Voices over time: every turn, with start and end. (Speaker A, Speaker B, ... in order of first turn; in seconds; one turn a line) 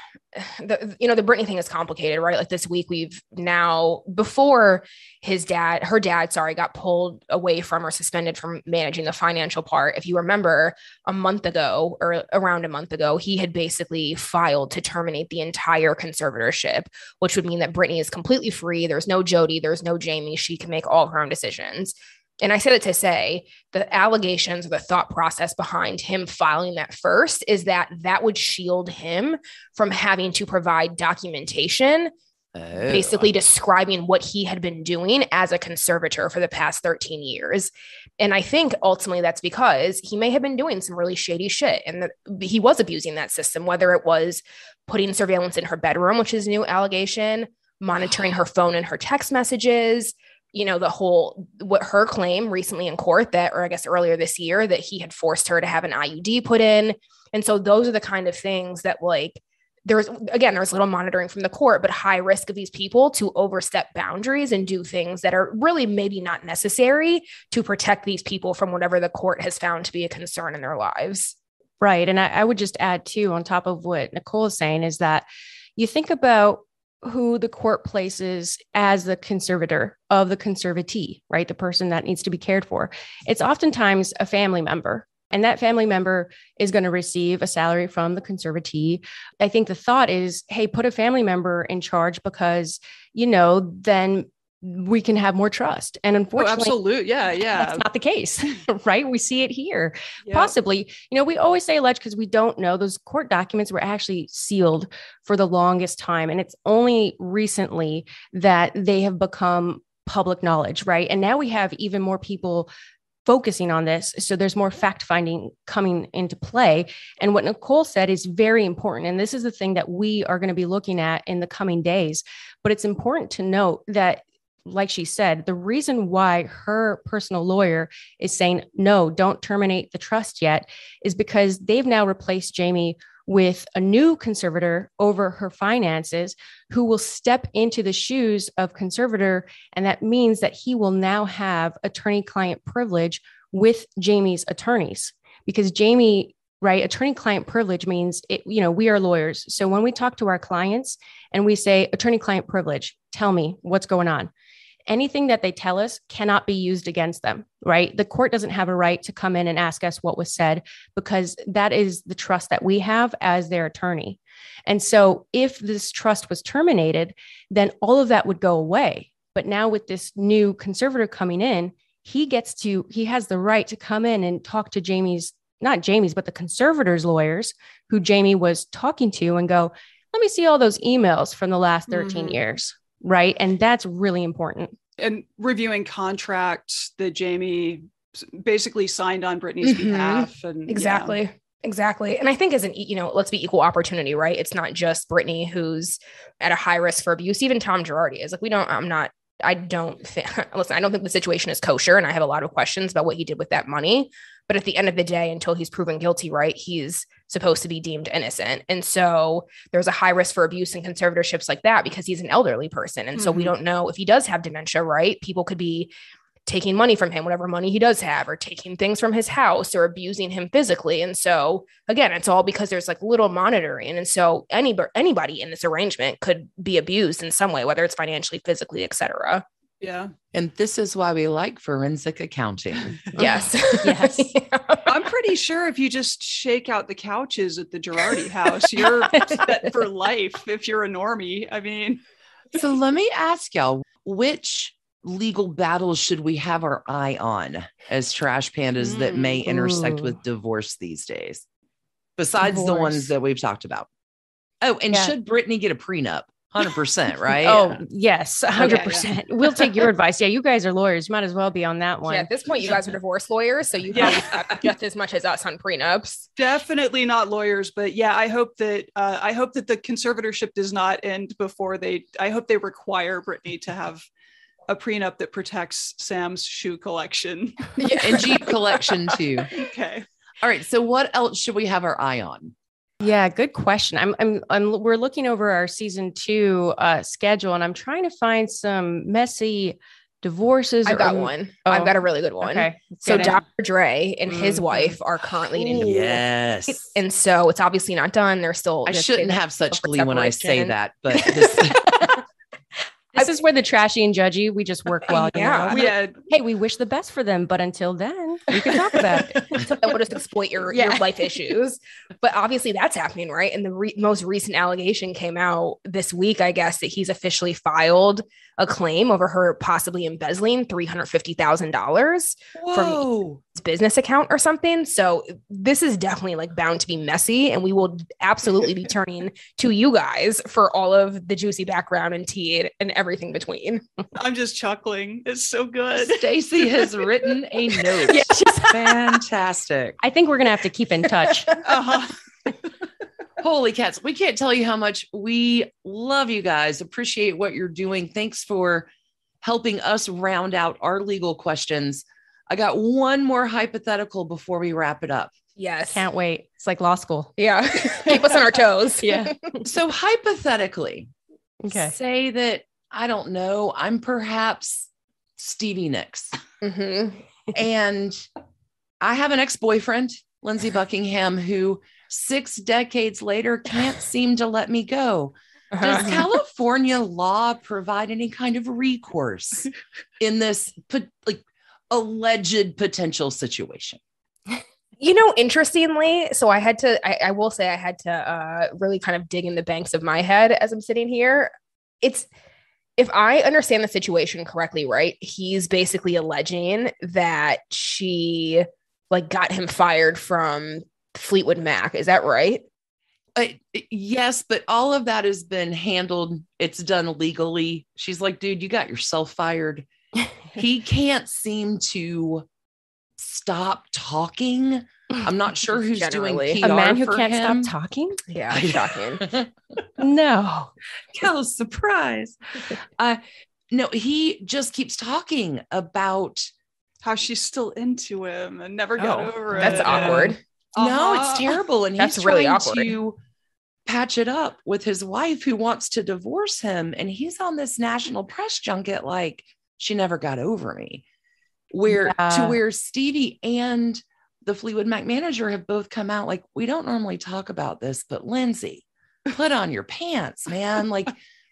Speaker A: 0.3-32.1
Speaker B: 32.5-33.3
Speaker A: 32.8-71.3
Speaker C: 71.8-75.2
Speaker C: 75.8-96.8
Speaker D: 96.4-97.8
Speaker C: 97.5-112.7
Speaker D: 100.2-100.5
Speaker C: 113.2-154.3
Speaker C: 154.9-184.7
Speaker D: 181.9-182.4
Speaker D: 185.0-191.2
Speaker A: 189.6-215.9
Speaker D: 213.1-213.5
Speaker A: 216.5-229.4
Speaker D: 229.8-230.1
Speaker B: 230.3-233.0
Speaker C: 233.1-234.3
Speaker A: 233.2-234.9
Speaker D: 234.8-242.0
Speaker B: 242.5-251.4
Speaker C: 249.4-250.2
Speaker B: 252.2-253.9
Speaker C: 252.4-253.1
Speaker B: 254.6-257.8
Speaker C: 257.3-262.3
Speaker D: 258.6-259.1
Speaker A: 262.1-266.2
Speaker D: 263.9-264.6
Speaker D: 266.4-274.1
Speaker D: 274.7-277.8
Speaker A: 277.8-278.3
Speaker B: 278.0-279.5
Speaker D: 279.5-280.1
Speaker B: 280.4-282.5
Speaker C: 283.0-293.4
Speaker A: 290.9-296.2
Speaker C: 294.3-295.0
Speaker B: 295.5-296.9
Speaker A: 296.9-301.7
Speaker B: 298.9-302.1
Speaker C: 303.1-309.6
Speaker A: 305.1-305.9
Speaker D: 305.7-306.1
Speaker A: 309.4-333.8
Speaker C: 310.7-311.1
Speaker B: 322.6-323.4
Speaker D: 334.1-336.3
Speaker B: 335.9-340.0
Speaker C: 338.1-338.9
Speaker C: 340.0-341.5
Speaker D: 341.6-342.1
Speaker B: 343.4-348.9
Speaker B: 349.4-355.3
Speaker A: 355.6-356.0
Speaker C: 355.9-357.4
Speaker A: 357.4-359.6
Speaker C: 359.0-359.3
Speaker B: 359.6-361.1
Speaker C: 361.6-361.9
Speaker B: 361.7-366.3
Speaker A: 366.6-367.2
Speaker B: 367.5-368.2
Speaker B: 369.0-384.0
Speaker A: 375.7-376.2
Speaker A: 385.0-392.3
Speaker A: 393.0-402.6
Speaker B: 403.4-409.9
Speaker B: 410.5-412.4
Speaker B: 413.2-417.7
Speaker A: 415.9-416.6
Speaker C: 416.6-418.2
Speaker A: 418.3-419.2
Speaker B: 418.5-419.5
Speaker C: 420.0-420.7
Speaker B: 421.1-426.5
Speaker D: 427.0-431.6
Speaker A: 429.0-430.4
Speaker C: 429.6-430.2
Speaker B: 430.8-433.2
Speaker A: 432.0-432.9
Speaker B: 433.9-441.0
Speaker B: 441.7-451.2
Speaker C: 441.9-442.6